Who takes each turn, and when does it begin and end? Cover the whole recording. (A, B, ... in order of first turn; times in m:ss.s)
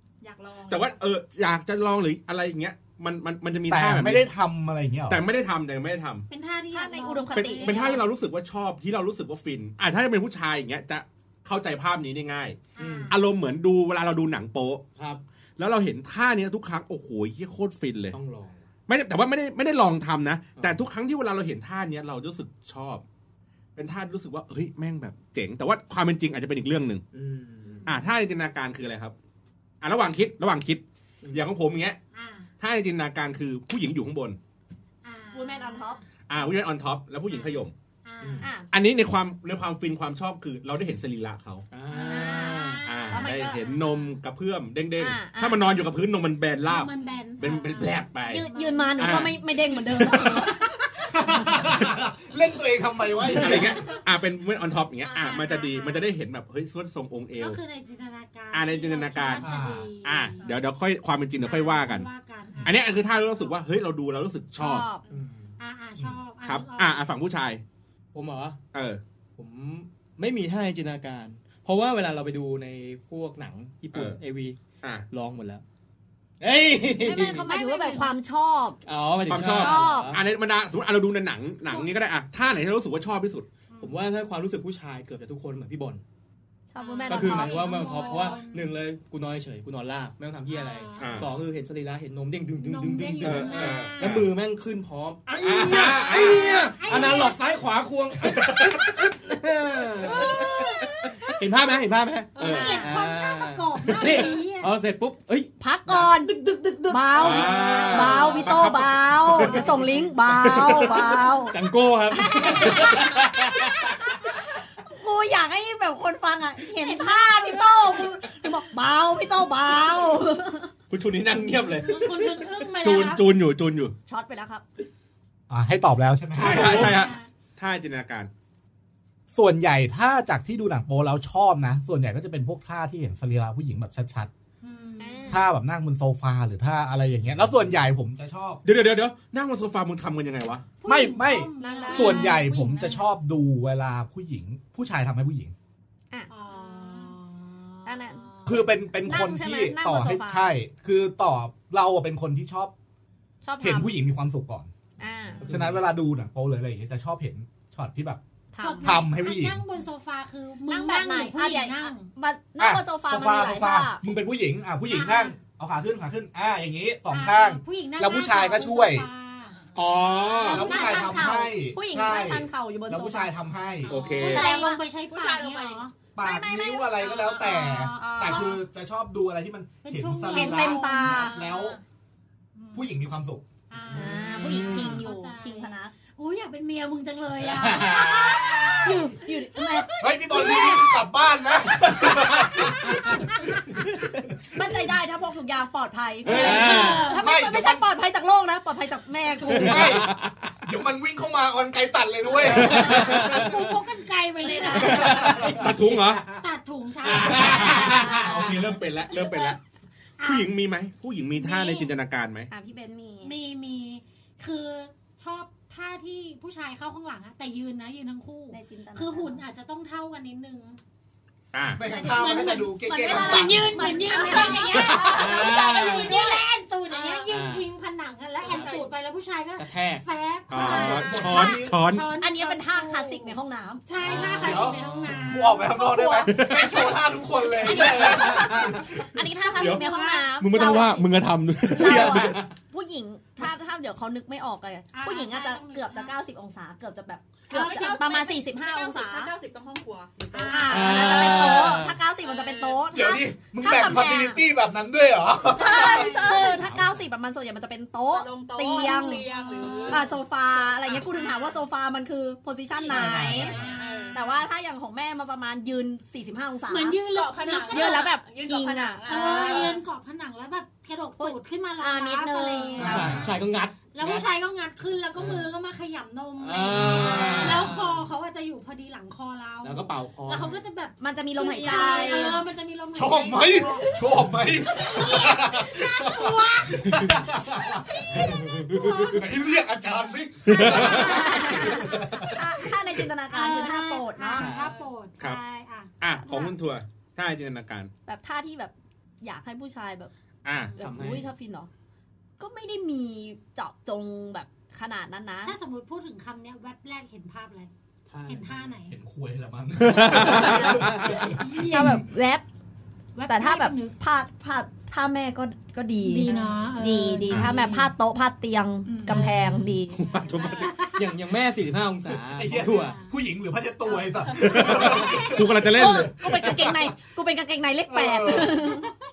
0:00.2-0:00.9 A
0:00.7-0:04.3 B
0:03.7-0:05.2 C
0:05.1-0:06.2 B
0:06.3-0:08.0 D
0:06.7-0:08.0 E
0:07.3-0:14.8 B
0:12.8-0:13.2 D
0:12.8-0:13.1 F
0:15.0-0:15.2 F
0:15.6-0:18.2 B
0:18.1-0:18.6 F
0:18.9-0:23.0 B
0:20.6-0:20.8 F
0:23.8-0:27.0 B
0:27.1-0:28.0 F
0:27.8-0:29.1 B
0:29.8-0:32.0 B
0:31.2-0:31.5 F
0:32.1-0:32.5 D
0:32.6-0:34.4 B
0:35.0-0:36.0 D
0:35.3-0:36.0 E
0:36.3-0:37.7 B
0:37.3-0:38.5 D
0:38.2-0:38.5 F
0:38.4-0:38.7 E
0:38.7-0:41.7 B
0:41.7-0:42.9 F
0:41.9-0:44.1 D
0:42.1-0:43.8 E
0:42.8-0:48.4 B
0:45.0-0:45.6 E
0:46.6-0:49.3 D
0:48.3-0:50.7 E
0:49.0-0:49.3 B
0:51.1-0:53.8 C
0:51.3-0:51.7 E
0:53.3-0:53.6 E
0:53.3-0:57.6 B
0:55.0-0:56.0 E
0:57.4-1:00.6 D
0:58.5-0:59.5 B
0:59.4-0:59.9 C
1:00.0-1:02.1 B
1:01.4-1:03.3 D
1:02.6-1:04.9 B
1:04.6-1:05.0 E
1:05.1-1:05.5 F
1:05.6-1:07.0 D
1:06.4-1:07.6 B
1:08.1-1:08.6 F
1:08.7-1:09.0 B
1:09.4-1:14.6 F
1:13.9-1:14.2 B
1:15.1-1:15.6 F
1:16.4-1:17.5 F
1:16.9-1:18.8 E
1:17.4-1:18.2 D
1:18.8-1:20.2 F
1:19.2-1:23.5 B
1:19.4-1:20.1 E
1:23.7-1:24.0 D
1:23.8-1:26.0 F
1:26.7-1:28.3 E
1:26.8-1:28.8 D
1:27.1-1:40.5 F
1:30.5-1:31.4 D
1:31.0-1:31.2 B
1:32.6-1:34.1 D
1:33.2-1:34.3 B
1:35.3-1:37.4 D
1:35.4-1:36.4 B
1:38.3-1:38.8 B
1:41.0-1:48.5 F
1:42.3-1:42.9 A
1:42.4-1:44.7 D
1:42.4-1:43.0 E
1:45.6-1:51.6 E
1:47.2-1:51.0 B
1:48.0-1:48.5 D
1:49.4-1:49.9 F
1:51.5-1:54.0 F
1:52.1-1:54.3 E
1:52.6-1:52.9 B
1:54.8-2:00.7 E
1:56.7-1:58.1 D
2:00.9-2:02.2 B
2:01.8-2:03.3 D
2:02.8-2:03.9 B
2:04.1-2:04.6 E
2:05.5-2:07.0 C
2:06.3-2:08.3 B
2:06.4-2:07.3 D
2:09.3-2:14.3 C
2:14.6-2:15.4 D
2:15.0-2:15.5 E
2:15.3-2:18.6 C
2:18.6-2:20.6 B
2:20.8-2:22.5 D
2:20.8-2:25.5 C
2:21.6-2:22.6 E
2:21.9-2:23.0 A
2:26.3-2:28.6 D
2:26.5-2:27.2 A
2:27.8-2:28.2 E
2:28.4-2:32.7 C
2:29.0-2:30.6 E
2:33.4-2:33.9 E
2:33.6-2:34.7 C
2:35.0-2:35.5 E
2:35.4-2:35.8 F
2:35.5-2:38.2 C
2:38.5-2:39.0 E
2:38.6-2:42.1 D
2:38.8-2:39.6 C
2:40.7-2:44.0 E
2:42.6-2:49.0 C
2:44.8-2:45.3 D
2:47.1-2:49.6 D
2:49.6-2:50.5 A
2:49.7-2:50.7 B
2:50.5-2:53.3 E
2:50.5-2:53.9 C
2:50.5-2:51.2 D
2:53.8-2:57.7 A
2:53.9-2:54.5 B
2:53.9-2:55.9 D
2:54.2-2:54.8 E
2:56.1-3:01.8 C
2:57.4-2:58.6 D
2:59.8-3:01.4 D
3:00.3-3:01.4 E
3:01.2-3:01.8 A
3:02.5-3:03.0 D
3:02.7-3:03.4 C
3:03.7-3:09.8 D
3:03.9-3:05.9 E
3:04.2-3:05.0 F
3:07.5-3:09.0 F
3:08.8-3:11.0 E
3:10.0-3:13.2 C
3:12.0-3:12.6 F
3:14.5-3:20.1 E
3:16.2-3:17.1 F
3:16.2-3:17.2 D
3:17.2-3:17.9 C
3:19.4-3:23.4 C
3:19.7-3:20.5 F
3:22.4-3:23.7 F
3:22.7-3:25.7 D
3:24.6-3:25.0 E
3:24.8-3:26.4 F
3:24.8-3:25.6 C
3:25.3-3:26.2 B
3:26.2-3:28.1 D
3:27.0-3:29.6 B
3:27.1-3:28.6 F
3:27.9-3:28.2 E
3:29.1-3:29.6 D
3:30.2-3:30.5 D
3:30.2-3:32.5 B
3:31.3-3:31.9 D
3:32.5-3:33.3 E
3:33.2-3:40.8 D
3:38.5-3:39.4 E
3:41.5-3:41.8 B
3:41.8-3:43.9 C
3:41.9-3:55.7 D
3:42.0-3:45.5 E
3:44.1-3:47.3 A
3:45.0-3:46.2 F
3:47.3-3:47.7 F
3:48.4-3:48.9 A
3:49.6-3:50.0 F
3:50.5-3:52.1 B
3:50.5-3:51.8 C
3:52.2-3:53.8 E
3:54.0-3:55.4 F
3:54.3-3:59.0 C
3:55.5-3:56.9 E
3:56.3-3:56.9 B
3:57.6-4:01.1 E
3:57.8-3:58.4 D
3:59.5-4:02.4 B
3:59.6-4:00.3 D
4:01.7-4:09.3 E
4:01.8-4:02.5 F
4:04.9-4:06.2 D
4:07.5-4:08.2 D
4:07.5-4:10.6 A
4:10.3-4:11.7 D
4:10.4-4:14.4 E
4:10.7-4:12.0 F
4:12.2-4:12.9 A
4:12.9-4:15.9 C
4:15.5-4:16.6 D
4:15.6-4:19.3 E
4:15.6-4:16.7 A
4:18.1-4:21.6 A
4:18.8-4:20.2 D
4:19.9-4:23.6 E
4:22.8-4:24.2 D
4:22.9-4:23.6 C
4:22.9-4:24.4 A
4:24.1-4:27.0 E
4:26.7-4:28.1 D
4:27.0-4:29.8 A
4:27.7-4:29.8 E
4:29.1-4:33.2 D
4:31.2-4:33.1 E
4:32.8-4:33.4 C
4:32.8-4:34.3 F
4:33.9-4:44.0 D
4:35.2-4:35.5 F
4:36.4-4:38.0 F
4:36.7-4:37.6 C
4:37.2-4:37.5 E
4:39.6-4:40.6 F
4:41.0-4:42.4 E
4:42.9-4:53.0 C
4:44.7-4:49.3 D
4:50.4-4:51.1 B
4:50.5-4:52.0 D
4:50.6-4:54.5 E
4:53.3-4:56.5 D
4:54.3-4:54.7 F
4:54.4-4:54.9 A
4:56.0-4:57.9 B
4:58.0-5:00.1 E
5:00.4-5:00.8 B
5:00.8-5:01.7 E
5:00.8-5:01.3 F
5:02.4-5:05.5 E
5:05.4-5:07.7 D
5:08.1-5:08.8 F
5:08.3-5:09.0 D
5:08.9-5:11.4 C
5:09.8-5:10.9 B
5:10.2-5:10.8 E
5:10.7-5:11.4 F
5:11.3-5:12.1 D
5:11.7-5:12.4 E
5:13.1-5:14.0 D
5:13.3-5:20.0 E
5:16.0-5:17.9 D
5:18.8-5:19.3 A
5:19.1-5:19.8 F
5:19.9-5:20.8 B
5:20.0-5:21.1 D
5:20.2-5:20.9 A
5:20.9-5:23.0 F
5:22.3-5:26.8 C
5:22.5-5:23.1 D
5:24.3-5:26.1 B
5:25.7-5:28.9 E
5:27.9-5:28.8 C